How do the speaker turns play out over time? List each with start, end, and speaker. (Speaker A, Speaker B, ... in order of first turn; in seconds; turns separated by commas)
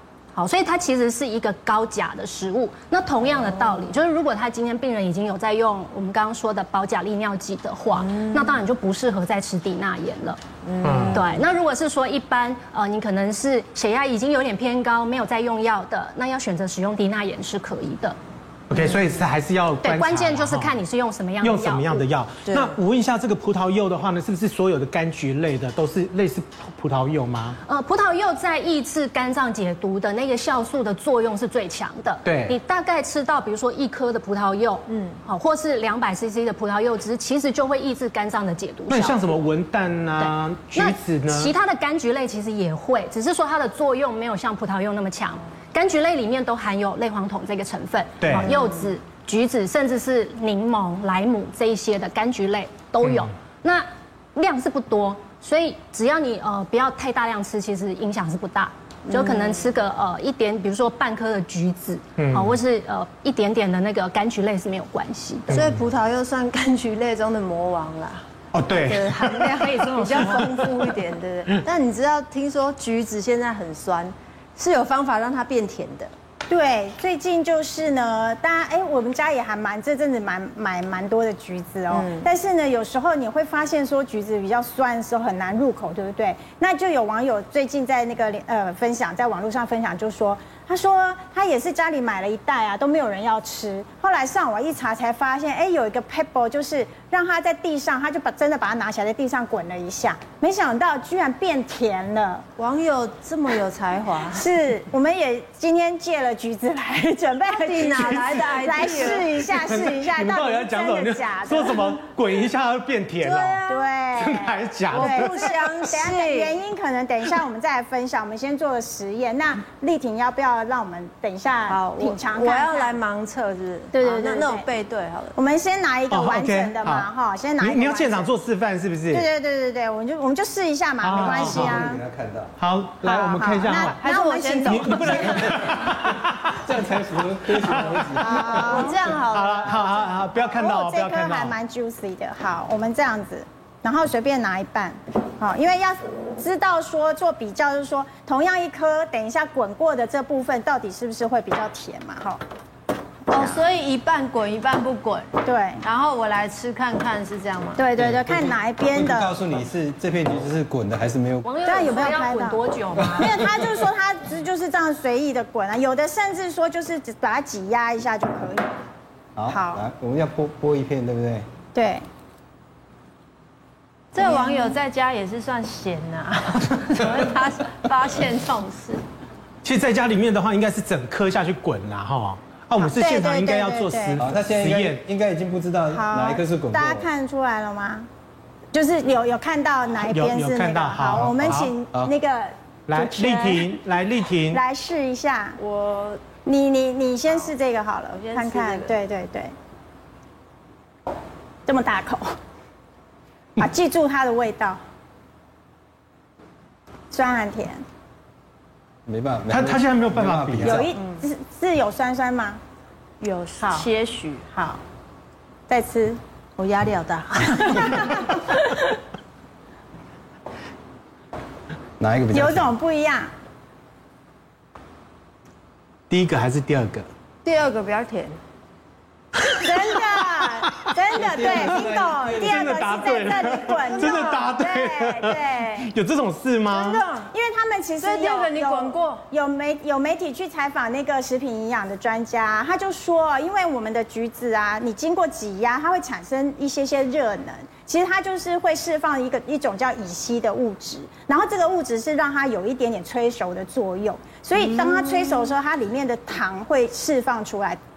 Speaker A: 0.3-10.4, Speaker B: 10.7-11.4, Speaker C: 10.8-11.2, Speaker A: 11.1-18.2, Speaker C: 18.7-20.8, Speaker A: 19.8-22.0, Speaker C: 21.4-27.6, Speaker B: 22.5-22.7, Speaker A: 27.7-39.2, Speaker C: 32.2-32.6, Speaker C: 38.9-41.5, Speaker A: 40.2-65.5, Speaker C: 48.2-48.5, Speaker B: 59.1-59.5, Speaker C: 62.2-62.5, Speaker C: 65.5-65.8, Speaker B: 65.5-76.1, Speaker C: 68.5-69.6, Speaker A: 69.6-70.4, Speaker D: 76.5-102.4, Speaker B: 81.9-82.3, Speaker B: 102.6-104.5, Speaker D: 104.3-112.0, Speaker B: 107.5-109.5, Speaker C: 108.0-108.5, Speaker C: 109.3-116.0, Speaker B: 113.2-113.9, Speaker D: 113.7-123.0, Speaker B: 114.9-116.6, Speaker B: 121.7-125.3, Speaker A: 123.9-124.3, Speaker D: 124.0-124.7, Speaker D: 125.3-128.3, Speaker C: 126.1-129.3, Speaker D: 129.1-132.0, Speaker C: 131.0-131.8, Speaker E: 131.2-132.5, Speaker C: 132.6-134.1, Speaker D: 133.0-135.5, Speaker B: 133.9-135.9, Speaker C: 134.7-136.6, Speaker E: 136.6-138.8, Speaker C: 137.8-138.7, Speaker B: 138.2-140.2, Speaker D: 138.3-139.1, Speaker C: 139.3-141.6, Speaker D: 140.4-152.4, Speaker D: 153.3-153.7, Speaker B: 153.3-155.3, Speaker D: 155.4-155.8, Speaker B: 155.8-157.8, Speaker D: 157.8-159.3, Speaker E: 158.0-161.5, Speaker A: 161.4-163.4, Speaker D: 161.7-168.7, Speaker E: 169.4-171.5, Speaker D: 169.5-169.8, Speaker D: 171.7-172.1, Speaker B: 174.1-179.0, Speaker D: 174.2-174.8, Speaker C: 179.6-185.1, Speaker D: 182.8-184.2, Speaker E: 184.2-187.1, Speaker D: 185.9-188.1, Speaker D: 188.7-193.7, Speaker C: 190.0-191.7, Speaker E: 191.2-192.1, Speaker C: 192.9-194.6, Speaker D: 194.5-195.6, Speaker B: 195.6-196.2, Speaker D: 196.4-199.5, Speaker B: 198.1-198.9, Speaker D: 201.7-202.3, Speaker D: 203.6-204.8, Speaker D: 207.1-207.8, Speaker E: 209.1-210.9, Speaker C: 209.5-210.9, Speaker D: 210.6-212.6, Speaker B: 213.2-214.5, Speaker D: 213.6-213.9, Speaker D: 214.5-214.8, Speaker D: 215.7-216.2, Speaker B: 216.6-218.4, Speaker E: 222.0-222.7, Speaker D: 222.3-223.3, Speaker C: 226.1-227.1, Speaker B: 227.4-228.4, Speaker D: 229.6-235.9, Speaker E: 231.1-232.7, Speaker C: 231.6-237.0, Speaker B: 234.0-234.5, Speaker D: 236.7-257.8, Speaker B: 236.8-237.3, Speaker B: 238.0-239.2